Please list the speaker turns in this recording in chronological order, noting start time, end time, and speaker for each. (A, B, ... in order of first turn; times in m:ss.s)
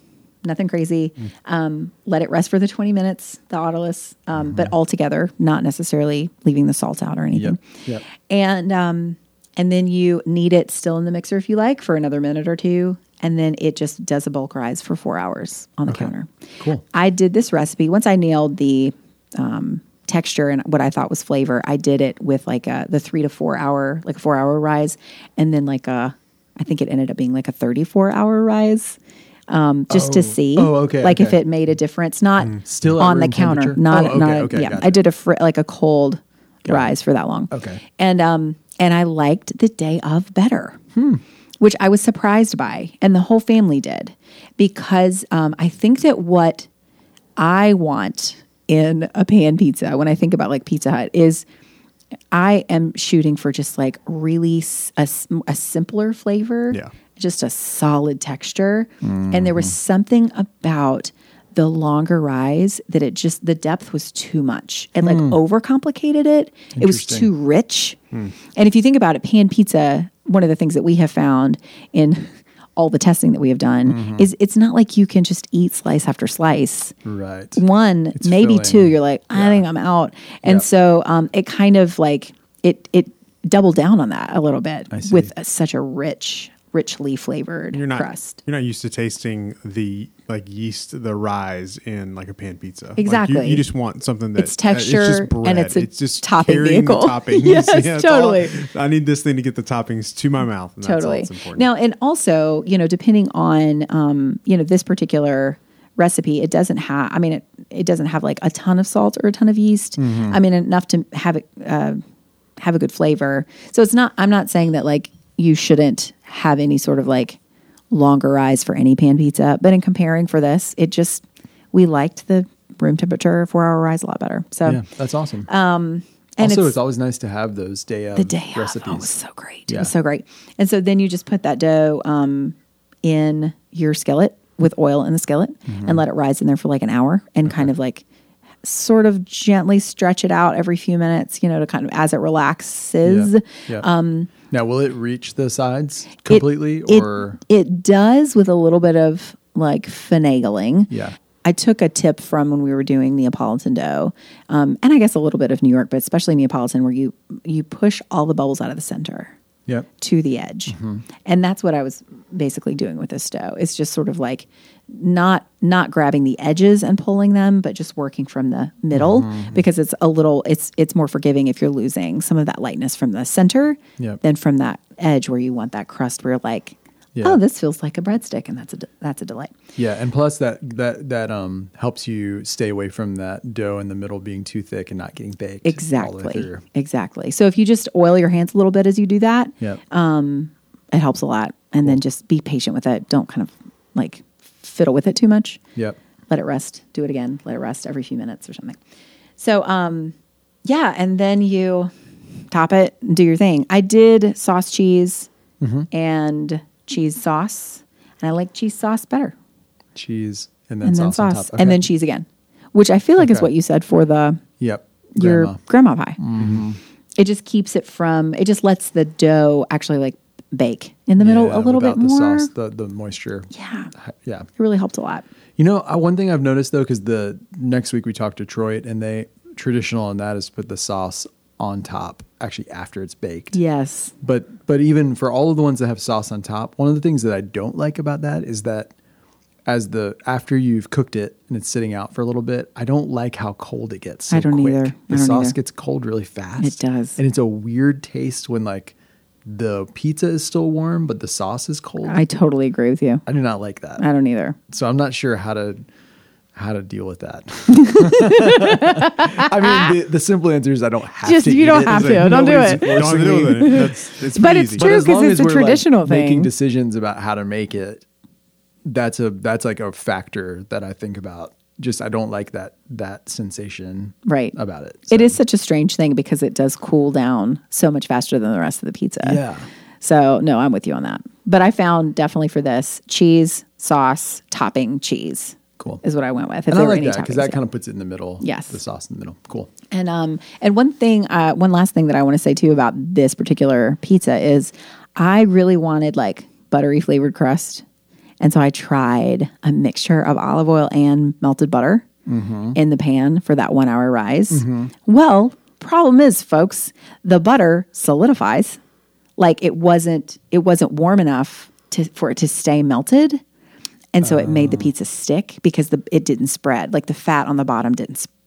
0:00.4-0:07.6 A
0:04.4-0:04.7 B
0:07.3-0:08.0 B
0:08.2-0:16.3 A
0:15.9-0:16.8 B
0:16.9-0:29.0 A
0:29.5-0:40.8 A
0:29.9-0:31.4 B
0:32.6-0:35.0 B
0:36.6-0:36.9 B
0:37.5-0:37.8 B
0:41.0-0:41.2 B
0:41.6-0:46.7 A
0:47.4-0:51.4 A
0:52.3-1:08.0 A
0:59.0-0:59.7 B
1:05.0-1:05.4 B
1:06.8-1:07.3 B
1:08.5-1:17.0 A
1:13.9-1:14.3 B
1:17.0-1:17.6 B
1:17.6-1:28.4 A
1:18.2-1:19.6 B
1:24.9-1:25.3 B
1:27.7-1:41.7 C
1:33.0-1:33.6 A
1:34.4-1:38.6 A
1:40.8-1:52.0 A
1:50.0-1:50.4 B
1:52.6-1:57.4 A
1:57.9-2:04.8 A
2:04.7-2:05.5 B
2:05.5-2:06.8 A
2:06.4-2:09.1 B
2:08.2-2:18.0 A
2:15.7-2:16.0 B
2:18.6-2:24.3 A
2:23.0-2:27.4 B
2:26.3-2:30.9 A
2:30.9-2:31.2 B
2:31.4-2:39.3 A
2:40.0-2:59.5 A
2:40.7-2:41.0 B
2:48.9-2:49.6 B
2:57.2-2:57.4 B
2:59.8-3:06.6 B
3:05.6-3:15.6 A
3:16.3-3:18.8 A
3:19.4-3:20.1 A
3:20.6-3:21.9 A
3:22.5-3:25.3 A
3:25.6-3:25.9 B
3:25.9-3:29.4 A
3:30.0-3:31.9 B
3:30.8-3:34.4 A
3:33.2-3:33.5 B
3:34.6-3:35.6 B
3:35.1-3:36.2 A
3:36.2-3:36.8 B
3:37.2-3:42.5 A
3:41.2-3:44.5 B
3:43.5-3:43.9 A
3:44.6-3:45.3 A
3:45.6-3:53.6 B
3:53.5-3:54.1 A
3:54.2-3:58.9 B
3:59.7-4:12.2 B
4:04.3-4:05.6 A
4:06.6-4:07.2 A
4:12.0-4:13.2 A
4:13.3-4:14.0 B
4:14.0-4:14.6 A
4:14.7-4:15.8 B
4:16.6-4:24.0 B
4:17.7-4:19.9 A
4:21.2-4:26.5 A
4:21.7-4:24.9 C
4:24.7-4:28.0 B
4:28.8-4:35.4 B
4:34.3-4:34.6 A
4:35.1-4:39.4 A
4:39.2-4:39.7 B
4:40.0-4:47.6 A
4:46.7-4:49.7 B
4:48.4-4:48.8 A
4:49.9-4:57.8 A
4:58.4-5:02.1 A
5:02.3-5:02.8 B
5:02.8-5:08.8 A
5:04.5-5:04.9 B
5:09.4-5:13.4 A
5:14.1-5:18.3 A
5:14.2-5:14.9 B